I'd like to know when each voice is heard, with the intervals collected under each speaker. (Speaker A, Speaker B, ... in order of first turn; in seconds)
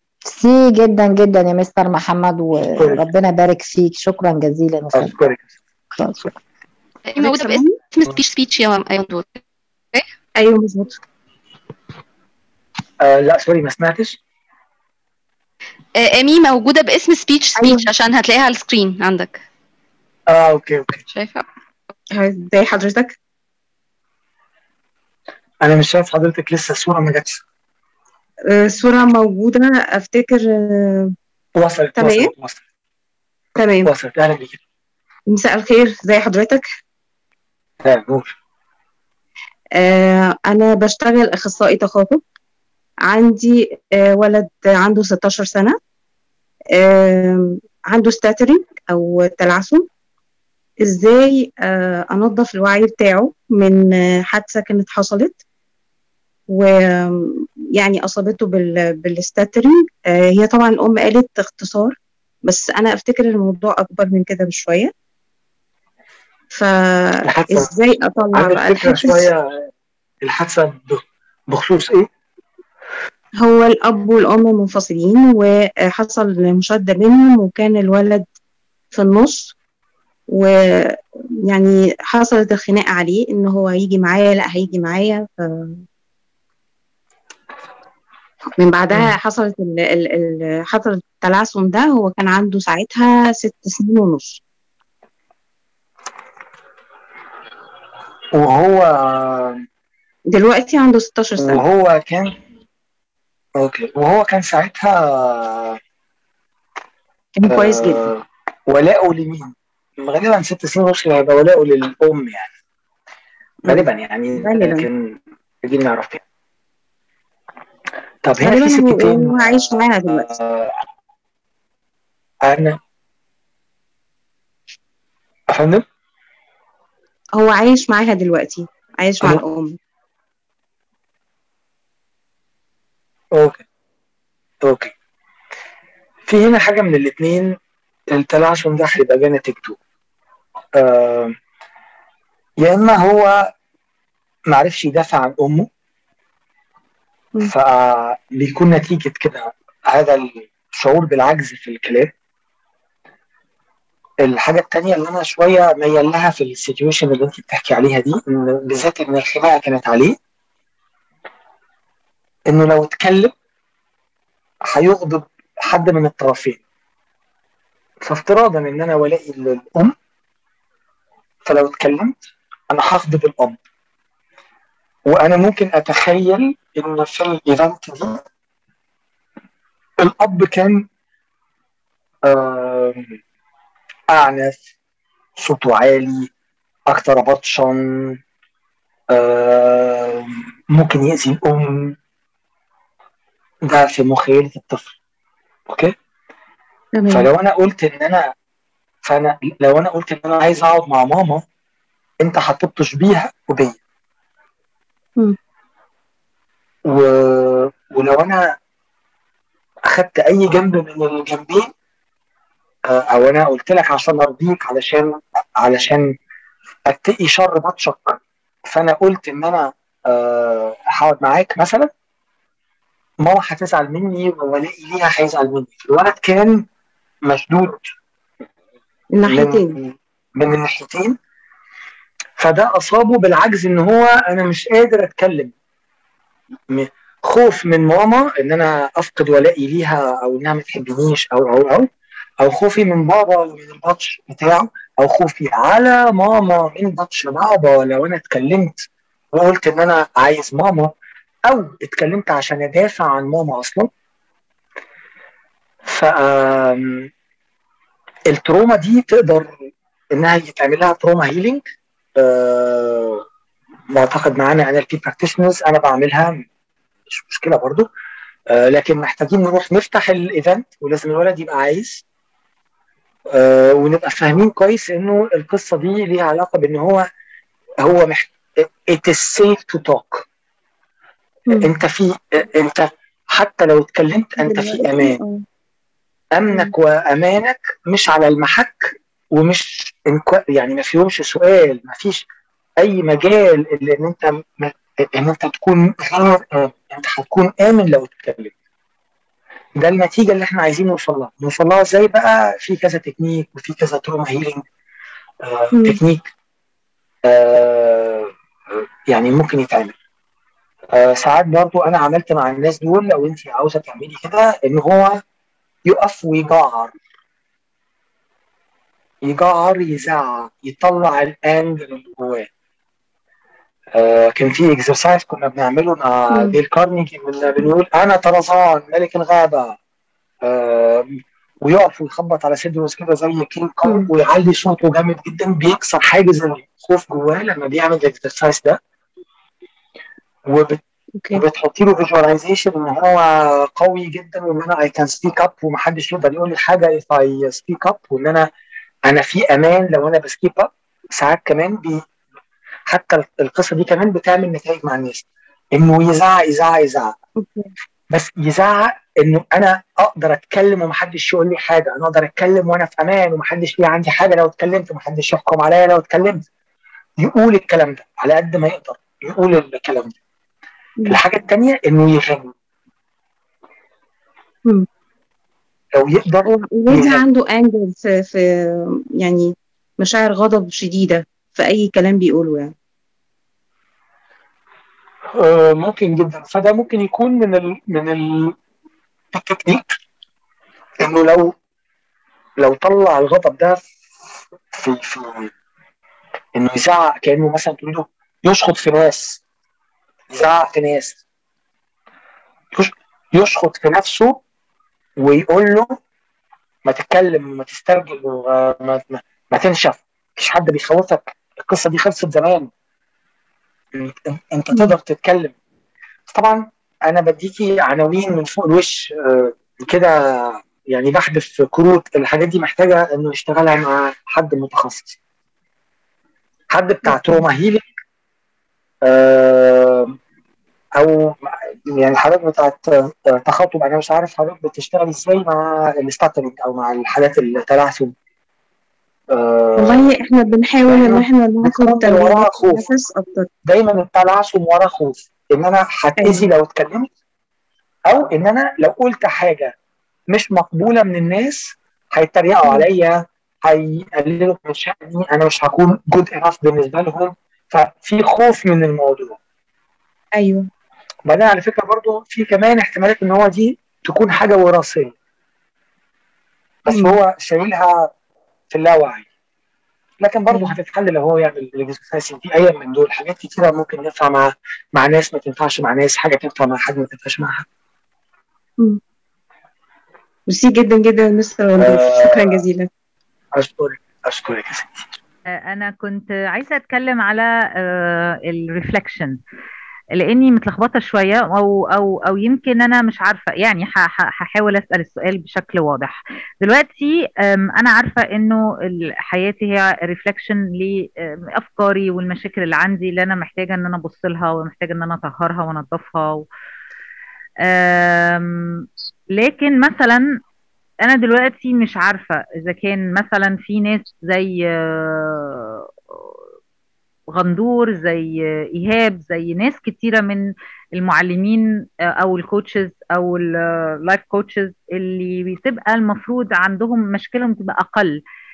Speaker A: 0.3-5.2, 6.0-6.3
Speaker B: 2.8-3.0, 4.9-5.5, 13.0-14.2, 20.3-21.0, 25.6-27.4, 31.6-32.6, 33.9-34.6, 37.8-38.4, 67.2-67.7, 68.3-69.7, 70.2-72.1, 98.3-99.6, 101.4-102.4, 103.6-105.8, 107.5-112.5, 113.7-115.1, 115.6-116.2, 118.2-120.8, 122.5-122.8, 125.5-125.8, 133.3-133.6, 134.6-134.9, 136.3-137.6, 138.1-139.8, 140.8-141.3, 142.6-143.5, 144.5-145.7, 147.4-152.1, 154.2-160.2, 162.5-163.3, 164.7-166.6, 168.0-169.9, 171.5-172.1, 172.7-173.6, 175.1-178.2, 180.0-180.8, 182.3-183.2, 184.1-184.6, 185.4-186.3, 186.9-188.2, 189.1-191.9, 193.7-194.9, 195.7-195.9, 197.1-198.3, 199.1-201.4, 202.2-203.8, 206.9-208.5, 209.9-211.7, 212.9-216.1, 216.9-221.9, 223.2-226.6, 227.3-227.8, 229.3-231.2, 232.4-235.5, 236.7-241.9, 242.4-250.9, 251.5-253.9, 255.9-257.1, 258.3-259.5, 260.1-263.2, 263.9-266.4, 267.1-267.9, 268.5-272.0, 273.3-277.1, 277.8-280.2, 281.6-285.2, 286.4-292.2, 292.8-298.5, 299.8-304.6, 305.4-306.3, 307.3-308.3, 309.1-309.9, 310.9-315.2, 315.9-316.9, 319.2-322.5, 323.9-329.8, 330.4-331.1, 331.6-338.8, 340.5-340.8, 341.3-348.5, 349.1-352.0, 352.9-357.1, 358.1-366.4, 367.2-370.2, 371.1-372.5, 375.9-377.2, 385.3-388.6, 389.3-390.0, 391.0-391.5, 392.6-393.9, 394.7-395.5, 396.6-399.4, 400.3-401.2, 402.7-404.4, 405.2-405.9, 406.9-412.7, 414.0-415.5, 416.3-425.2, 426.7-427.9, 429.1-430.2, 431.0-438.1, 439.3-440.1, 440.9-442.9, 443.7-447.1, 448.1-449.7, 450.3-459.4, 461.3-465.1, 466.9-468.1, 468.7-469.3, 470.2-477.6, 481.8-482.6, 483.6-485.1
Speaker C: 7.1-9.4, 16.0-19.4, 21.1-21.5
Speaker D: 7.2-7.8, 10.4-11.0, 17.6-17.9, 22.1-23.1, 28.5-31.1, 32.0-32.3, 33.6-33.9, 35.3-36.6, 39.8-42.2, 43.1-45.8, 46.8-49.9, 50.9-55.4, 56.5-62.0, 62.5-64.9, 66.5-69.3, 73.4-78.2, 78.9-79.5, 80.3-81.0, 81.5-85.8, 88.6-94.4, 100.3-101.6, 107.4-108.1, 114.4-114.9, 118.4-120.3, 127.4-129.8, 197.0-197.3, 229.2-229.8, 284.4-285.4, 305.7-306.0, 326.3-326.6, 357.4-357.7, 376.4-379.5, 380.0-382.7, 427.1-427.4, 439.8-443.5, 446.2-446.5, 460.4-460.7, 466.9-467.2, 470.5-470.8, 480.5-482.9
Speaker E: 485.7-489.4, 490.2-506.5, 507.6-510.2, 511.1-515.9, 517.3-521.7, 522.2-528.2